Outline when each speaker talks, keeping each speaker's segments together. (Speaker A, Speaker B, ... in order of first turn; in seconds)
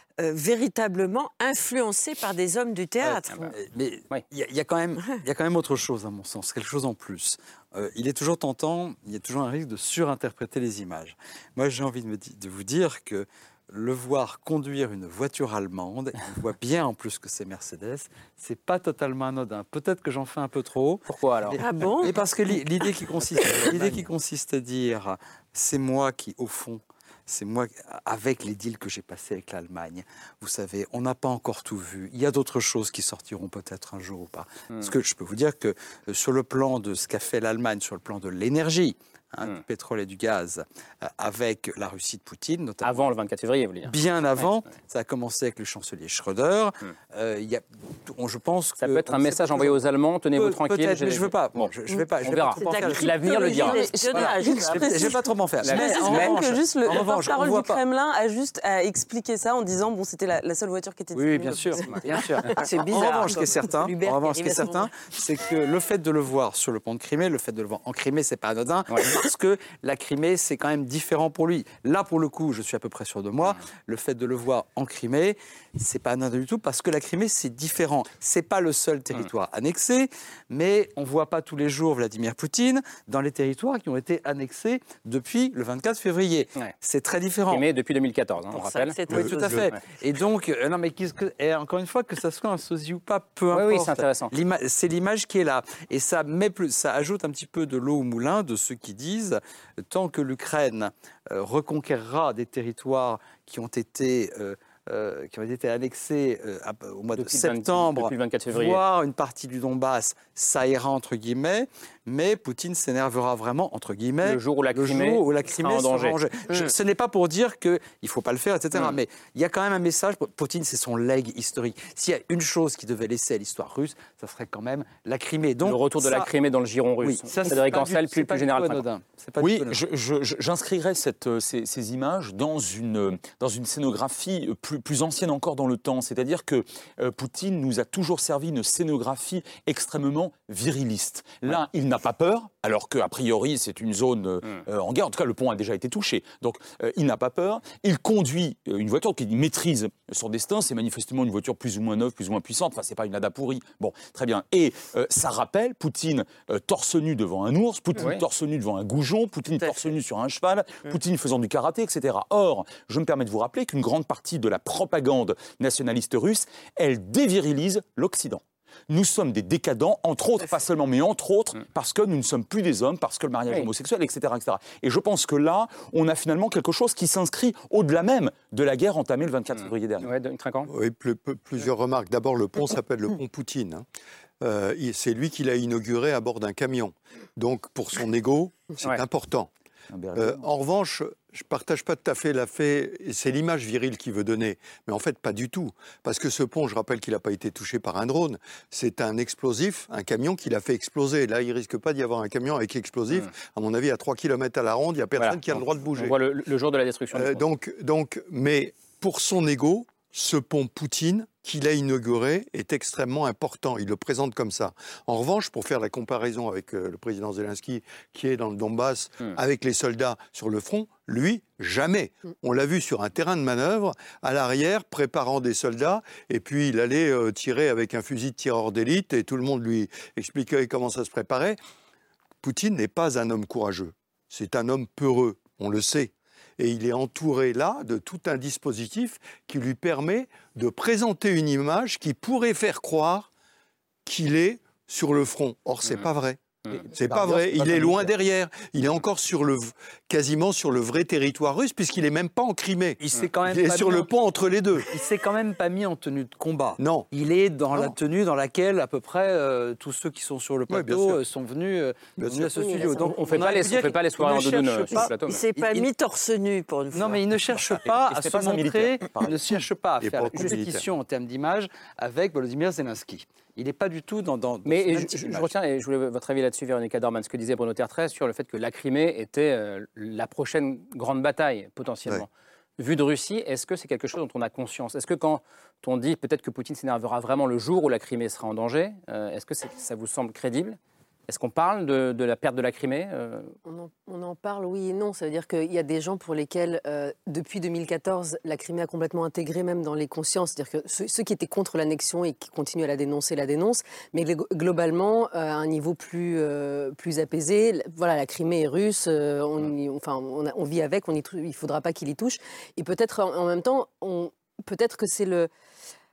Speaker A: 0.2-3.6, 21.6-22.2, 52.6-55.1, 62.6-63.6, 88.5-89.6, 159.6-159.9, 265.2-267.2
Speaker B: 3.0-43.0, 43.9-49.8, 50.4-57.8, 61.1-87.6, 89.1-126.3, 127.0-129.8, 253.0-254.1, 254.8-265.8, 266.9-275.5
Speaker C: 21.1-21.6, 42.8-44.4, 48.8-54.0, 55.6-56.4, 87.5-89.0, 93.5-94.3, 107.2-108.8, 114.2-116.7, 125.6-128.9, 157.9-158.2, 180.0-180.7, 205.2-207.4, 263.0-265.4, 274.6-293.5
Speaker D: 53.3-61.9
Speaker E: 62.4-64.9, 262.6-263.4, 293.6-315.5
Speaker F: 89.1-89.7, 180.7-183.8, 184.4-189.5, 190.1-206.1, 207.1-231.6, 232.4-243.3, 244.1-246.4, 246.9-254.9, 256.8-257.1, 260.7-261.2, 262.2-262.5, 270.0-270.9
Speaker G: 129.4-180.1, 189.9-190.4, 246.8-248.1, 267.9-269.4